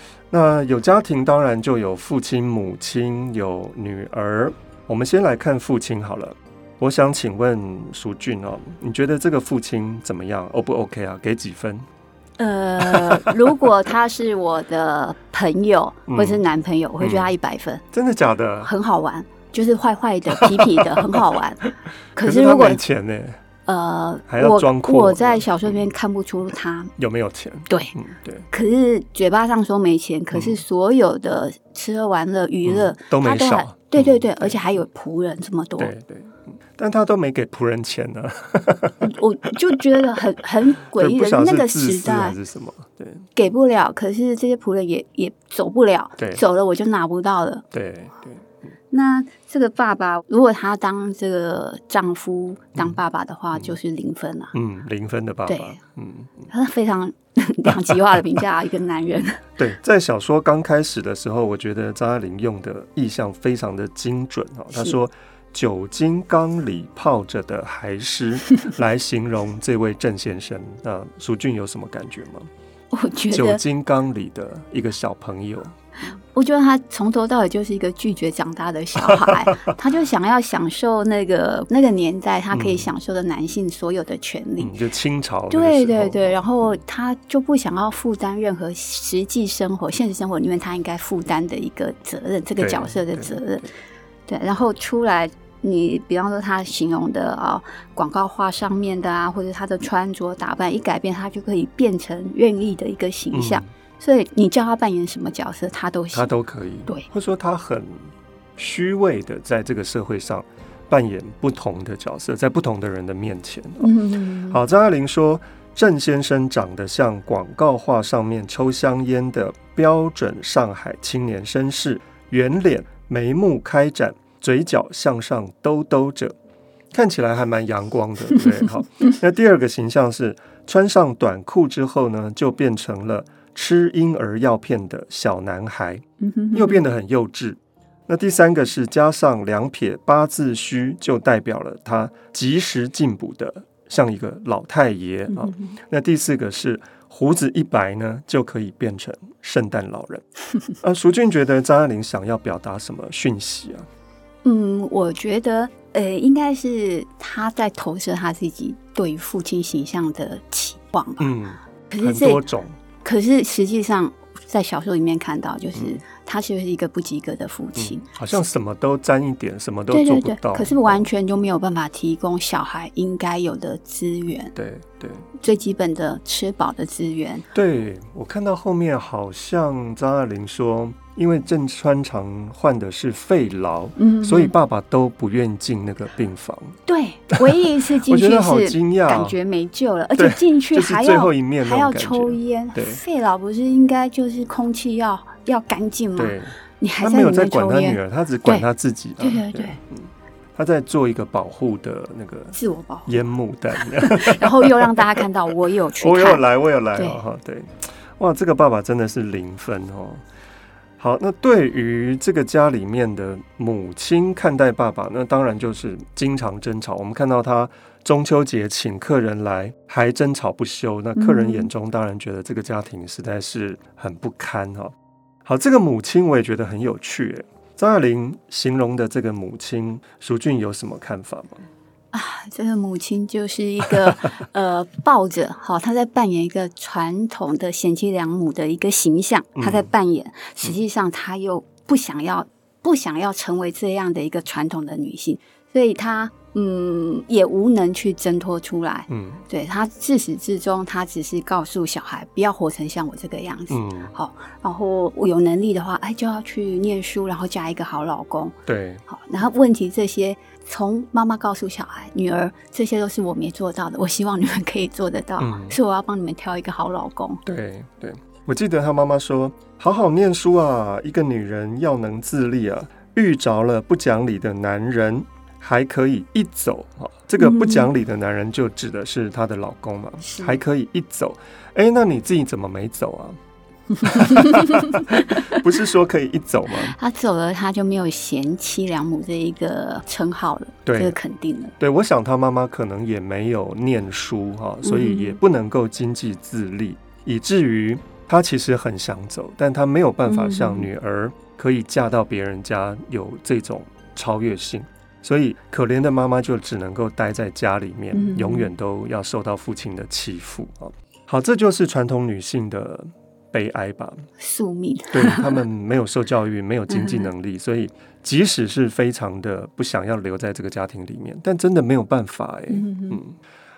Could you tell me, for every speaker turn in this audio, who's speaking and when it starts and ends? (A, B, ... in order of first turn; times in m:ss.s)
0:00.3-0:11.9 A
0:12.4-0:17.8 B
0:12.8-0:13.3 A
0:16.1-0:16.4 A
0:17.0-0:17.3 A
0:17.9-0:18.7 A
0:18.6-0:21.6 B
0:20.4-0:23.4 A
0:22.2-0:22.8 B
0:23.7-0:26.9 B
0:24.3-0:25.8 A
0:27.0-0:28.5 A
0:28.5-0:35.9 B
0:30.3-0:30.6 A
0:32.6-0:34.6 A
0:35.8-0:40.0 A
0:39.0-0:42.4 B
0:40.9-0:43.3 A
0:43.4-0:47.6 B
0:46.2-0:46.4 A
0:47.7-0:48.5 A
0:48.9-0:54.5 B
0:54.5-0:56.5 A
0:55.5-0:55.8 B
0:56.5-0:59.4 B
0:57.7-0:58.0 A
0:59.6-1:12.5 A
1:12.9-1:13.6 B
1:13.3-1:15.8 A
1:16.1-1:24.7 B
1:19.2-1:19.7 A
1:22.5-1:22.9 A
1:24.6-1:26.8 A
1:25.5-1:33.7 B
1:32.6-1:33.4 A
1:34.3-1:46.3 B
1:43.3-1:43.7 A
1:46.1-1:53.9 A
1:53.8-1:54.6 B
1:54.5-2:06.4 A
2:06.9-2:30.2 A
2:16.2-2:16.8 B
2:25.3-2:25.7 B
2:30.8-2:33.9 A
2:34.4-2:41.3 B
2:41.2-2:42.8 A
2:41.9-2:42.4 B
2:43.0-2:48.2 B
2:45.8-2:46.0 A
2:47.8-2:51.1 A
2:49.9-2:54.5 B
2:54.6-2:55.3 A
2:55.4-2:57.5 B
2:57.5-3:06.8 A
3:04.0-3:04.6 B
3:06.9-3:18.7 B
3:07.3-3:09.4 A
3:10.2-3:13.0 A
3:16.2-3:25.2 A
3:19.2-3:19.8 B
3:22.5-3:23.1 B
3:23.8-3:27.2 B
3:26.0-3:30.2 A
3:31.0-3:44.9 A
3:41.2-3:41.7 B
3:45.4-3:51.6 A
3:52.1-4:18.6 B
3:59.6-3:59.9 A
4:09.1-4:09.4 A
4:13.7-4:14.2 A
4:18.7-4:19.0 A
4:19.1-4:27.4 B
4:25.4-4:25.8 A
4:27.4-4:43.4 A
4:37.4-4:37.9 B
4:40.2-4:40.6 B
4:44.0-4:47.0 A
4:44.0-4:45.6 B
4:46.8-4:51.8 B
4:50.9-4:51.2 A
4:51.8-5:14.3 A
4:54.8-4:55.4 B
5:00.3-5:00.9 B
5:08.1-5:08.7 B
5:14.4-5:15.6 B
5:15.1-5:23.4 A
5:16.9-5:17.3 B
5:22.7-5:23.2 B